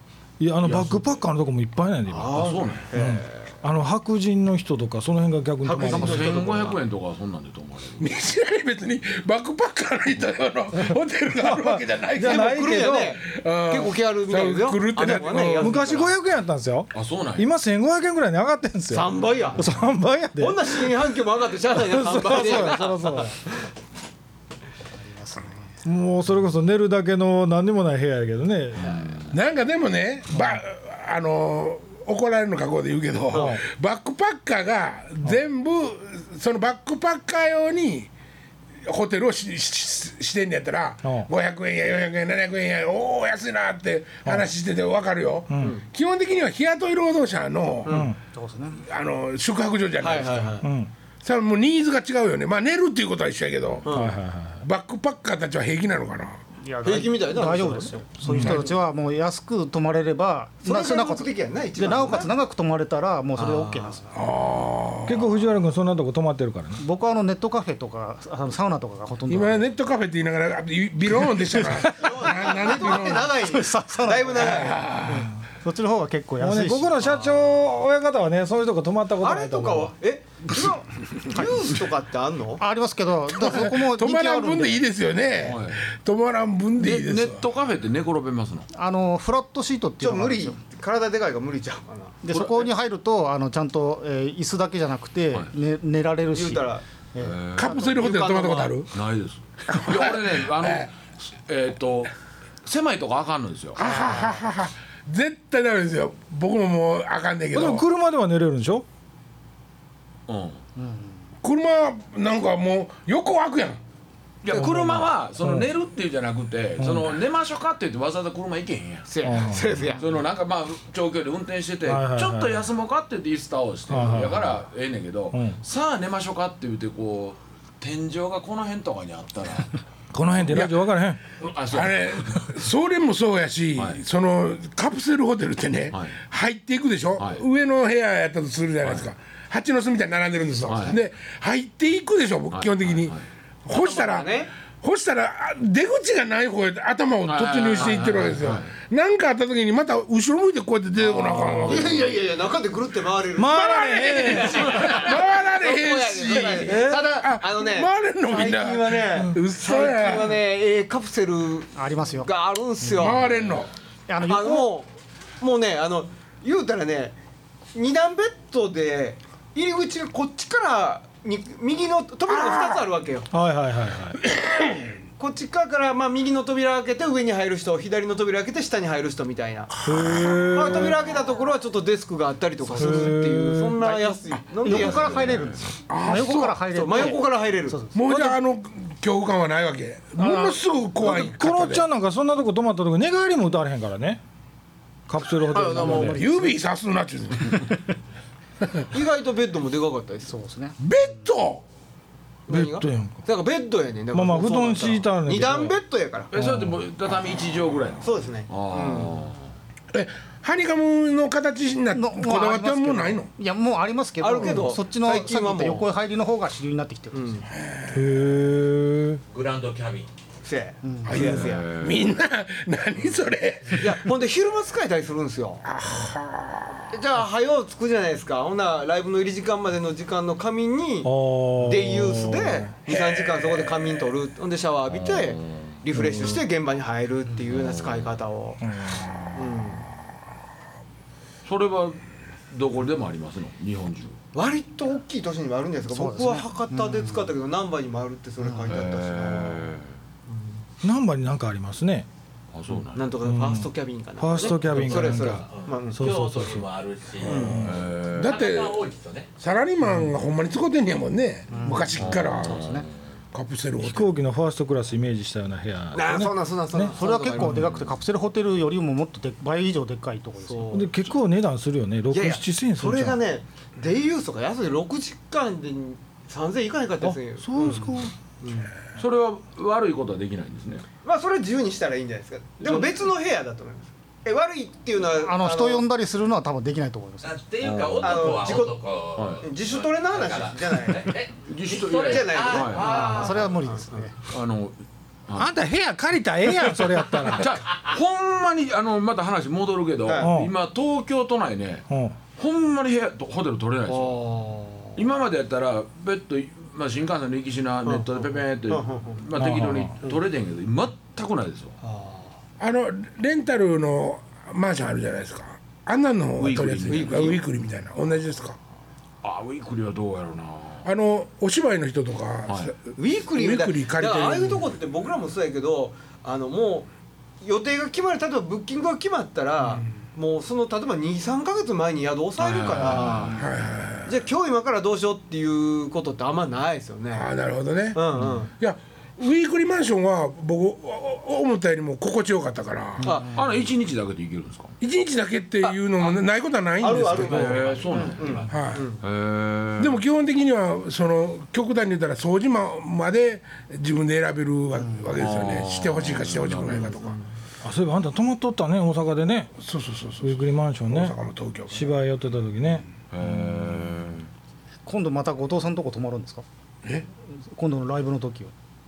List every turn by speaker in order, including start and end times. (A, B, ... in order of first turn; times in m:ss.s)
0:00.4-0:06.4 A
0:00.6-0:01.2 B
0:02.1-0:03.5 C
0:02.3-0:02.9 B
0:05.6-0:06.8 C
0:05.8-0:08.1 B
0:08.0-0:12.6 D
0:10.8-0:13.2 A
0:12.2-0:16.2 C
0:13.2-0:15.7 D
0:15.0-0:20.9 A
0:16.9-0:17.5 B
0:18.9-0:19.7 C
0:20.4-0:23.4 C
0:21.7-0:23.3 A
0:25.0-0:25.7 E
0:25.8-0:29.0 A
0:28.8-0:29.3 B
0:29.3-0:38.1 D
0:33.3-0:33.6 A
0:38.8-0:48.1 D
0:41.0-0:41.3 A
0:45.5-0:45.8 A
0:47.8-0:48.1 C
0:47.9-0:48.2 A
0:48.3-0:48.8 E
0:48.8-0:50.6 D
0:50.0-0:50.7 C
0:50.6-0:50.9 A
0:51.2-0:54.0 D
0:53.8-0:54.1 C
0:53.9-0:54.6 A
0:54.6-0:56.4 D
0:56.6-1:04.1 E
0:56.8-0:58.6 C
0:58.2-0:58.6 A
1:00.6-1:02.3 C
1:03.4-1:04.0 C
1:04.1-1:05.4 D
1:05.0-1:06.8 A
1:06.8-1:09.7 E
1:09.3-1:13.3 D
1:11.4-1:11.8 E
1:11.9-1:14.8 C
1:12.7-1:17.1 E
1:14.4-1:15.3 D
1:16.4-1:19.9 A
1:19.2-1:22.6 C
1:21.3-1:21.7 E
1:22.6-1:24.8 E
1:23.4-1:27.4 D
1:25.4-1:25.8 B
1:26.8-1:28.7 B
1:28.7-1:30.6 E
1:30.0-1:32.2 C
1:32.2-1:37.6 E
1:32.3-1:32.7 B
1:36.3-1:36.8 C
1:37.2-1:37.8 B
1:37.6-1:38.9 D
1:37.7-1:38.8 C
1:38.9-1:42.1 B
1:39.7-1:40.8 D
1:42.6-1:43.8 B
1:43.8-1:47.8 D
1:43.8-1:44.4 E
1:47.5-1:48.8 A
1:50.3-1:50.6 B
1:50.8-1:51.2 E
1:51.4-1:53.8 D
1:54.4-1:59.1 B
1:54.5-1:55.6 A
1:56.8-1:57.1 A
1:59.1-2:00.2 C
1:59.2-1:59.9 A
2:00.0-2:09.8 B
2:01.8-2:02.7 A
2:03.9-2:04.5 A
2:05.3-2:05.6 A
2:10.1-2:11.2 A
2:10.5-2:10.8 D
2:11.4-2:12.5 B
2:11.6-2:23.1 D
2:13.8-2:14.0 B
2:15.9-2:16.2 B
2:17.2-2:17.4 B
2:20.6-2:21.0 B
2:22.5-2:23.2 B
2:23.6-2:32.1 D
2:23.7-2:24.5 C
2:27.2-2:28.7 B
2:31.5-2:43.3 C
2:33.4-2:34.9 A
2:34.2-2:40.4 D
2:36.6-2:37.1 A
2:41.7-2:42.3 E
2:42.9-2:43.7 D
2:44.1-2:44.7 E
2:44.2-2:44.9 C
2:45.4-2:47.2 C
2:47.7-2:53.3 C
2:52.3-2:52.8 D
2:53.3-2:54.2 A
2:54.3-2:54.9 D
2:55.2-2:59.7 C
2:59.7-3:00.8 D
2:59.8-3:01.0 A
3:00.5-3:05.4 C
3:02.8-3:03.1 E
3:02.8-3:04.2 A
3:04.6-3:08.0 E
3:04.6-3:05.6 B
3:05.9-3:07.1 D
3:06.7-3:08.4 C
3:07.9-3:11.9 D
3:10.2-3:10.5 E
3:10.3-3:14.2 A
3:15.1-3:16.2 A
3:15.5-3:16.2 C
3:15.5-3:16.6 E
3:16.0-3:17.7 D
3:18.9-3:20.3 C
3:20.3-3:20.8 E
3:20.8-3:21.6 D
3:22.5-3:26.3 C
3:22.5-3:23.2 A
3:24.1-3:25.8 A
3:26.3-3:29.4 B
3:26.3-3:26.8 A
3:28.0-3:29.2 C
3:29.9-3:33.3 D
3:31.9-3:37.4 E
3:34.2-3:35.9 C
3:37.1-3:37.4 C
3:37.5-3:38.2 D
3:37.9-3:39.2 A
3:39.3-3:40.1 F
3:40.4-3:41.7 C
3:40.8-3:41.4 E
3:41.0-3:44.0 D
3:41.2-3:42.0 B
3:43.7-3:45.6 C
3:45.6-3:46.8 D
3:46.9-3:58.6 C
3:51.0-3:52.7 A
3:52.9-3:54.1 D
3:54.9-3:55.5 B
3:55.9-3:56.4 A
3:57.5-3:58.1 B
3:58.6-3:59.3 A
3:59.3-3:59.9 C
4:01.4-4:04.2 B
4:04.3-4:09.7 C
4:05.9-4:07.3 E
4:08.4-4:08.7 E
4:08.7-4:09.9 B
4:10.3-4:10.6 C
4:10.8-4:12.1 A
4:12.5-4:13.0 B
4:12.9-4:16.1 C
4:13.2-4:16.6 A
4:14.5-4:17.7 F
4:17.2-4:17.7 C
4:17.2-4:18.8 D
4:17.6-4:18.3 B
4:18.2-4:19.3 F
4:19.4-4:22.6 D
4:21.5-4:22.9 E
4:22.0-4:22.9 B
4:23.3-4:24.1 D
4:23.8-4:26.9 A
4:25.9-4:27.7 C
4:27.0-4:30.9 E
4:27.5-4:28.0 B
4:30.4-4:31.0 C
4:30.7-4:33.2 A
4:32.1-4:38.7 C
4:37.0-4:38.1 A
4:39.0-4:40.8 B
4:41.0-4:45.9 C
4:42.6-4:43.1 B
4:45.1-4:47.4 E
4:47.2-4:53.6 F
4:47.6-4:48.5 B
4:48.0-4:48.8 C
4:49.2-4:49.5 B
4:49.4-4:51.2 C
4:51.4-4:52.9 B
4:51.9-4:54.1 C
4:53.0-4:54.1 E
4:54.3-4:54.7 B
4:55.3-4:55.5 B
4:55.4-4:57.6 A
4:57.1-5:04.2 B
5:00.0-5:00.3 C
5:00.2-5:00.5 A
5:01.9-5:02.2 A
5:03.9-5:05.0 C
5:05.0-5:11.8 B
5:07.8-5:09.2 C
5:09.3-5:10.0 A
5:11.8-5:12.3 C
5:12.6-5:18.6 D
5:16.4-5:17.4 B
5:16.9-5:17.4 C
5:19.2-5:20.9 B
5:20.8-5:24.7 D
5:22.5-5:22.7 B
5:23.0-5:26.9 C
5:27.4-5:33.4 C
5:32.4-5:33.4 B
5:33.3-5:34.2 D
5:34.0-5:37.3 C
5:37.1-5:43.1 D
5:37.9-5:38.5 C
5:43.0-5:43.6 E
5:43.0-5:43.3 C
5:43.3-5:44.8 B
5:44.8-5:47.7 D
5:46.8-5:49.0 C
5:47.2-5:50.0 B
5:47.5-5:48.5 F
5:48.5-5:48.8 D
5:49.8-5:57.2 D
5:54.8-5:55.1 E
5:55.2-5:57.0 B
5:56.7-5:57.3 C
5:57.6-5:59.5 A
5:59.6-6:02.0 D
6:00.2-6:01.2 A
6:01.7-6:02.8 A
6:03.1-6:04.3 B
6:04.8-6:06.4 E
6:07.4-6:08.5 E